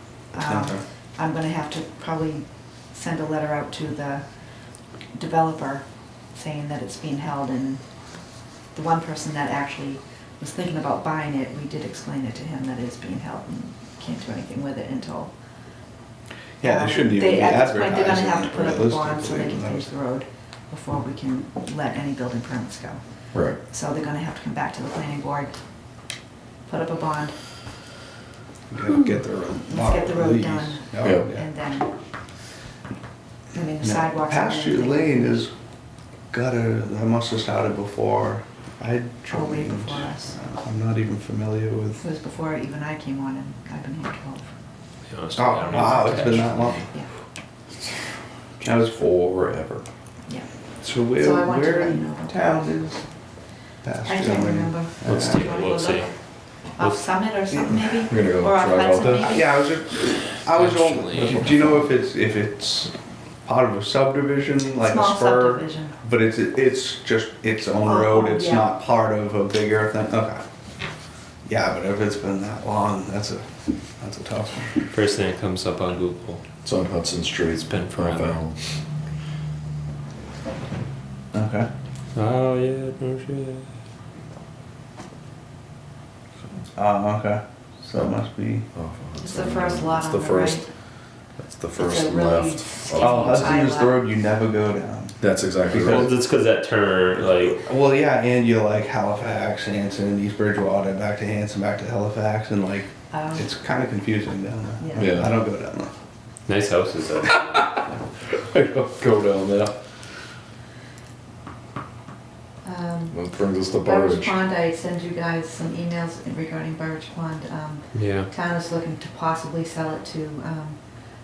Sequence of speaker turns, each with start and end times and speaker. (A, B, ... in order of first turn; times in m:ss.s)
0:00.3-0:04.3 A
0:00.4-0:00.8 B
0:05.1-0:07.8 A
0:08.7-0:15.3 A
0:16.6-0:19.9 B
0:16.6-0:23.0 A
0:23.3-0:23.6 C
0:23.7-0:25.5 A
0:26.6-0:27.3 A
0:28.7-0:31.5 B
0:29.7-0:31.9 A
0:33.5-0:35.4 A
0:33.8-0:35.5 B
0:36.3-0:42.0 B
0:39.3-0:40.4 A
0:42.0-0:44.5 A
0:45.1-0:46.8 D
0:45.3-0:46.9 B
0:46.7-0:47.1 A
0:48.6-0:49.8 C
0:48.6-0:49.1 B
0:50.8-0:53.0 B
0:51.1-0:52.6 A
0:53.8-0:55.5 B
0:54.0-0:56.1 A
0:55.0-0:56.1 D
0:56.7-0:59.5 A
0:58.0-0:59.4 C
0:59.1-1:10.4 B
1:00.4-1:01.6 D
1:01.1-1:01.8 C
1:04.8-1:06.0 A
1:07.8-1:08.7 A
1:11.4-1:14.8 B
1:14.9-1:16.4 D
1:16.6-1:18.6 C
1:17.6-1:18.4 D
1:21.3-1:21.7 B
1:22.1-1:23.7 D
1:26.7-1:28.6 B
1:28.7-1:30.6 C
1:29.2-1:30.6 A
1:31.4-1:33.6 C
1:31.8-1:34.0 A
1:33.0-1:36.1 B
1:35.2-1:36.1 C
1:35.7-1:37.6 D
1:37.5-1:45.9 B
1:43.1-1:43.5 A
1:44.8-1:45.3 A
1:45.0-1:45.3 C
1:46.4-1:47.6 D
1:48.3-1:49.8 C
1:52.6-1:53.2 A
1:53.1-1:54.4 C
1:53.8-2:00.8 A
1:57.9-1:58.3 D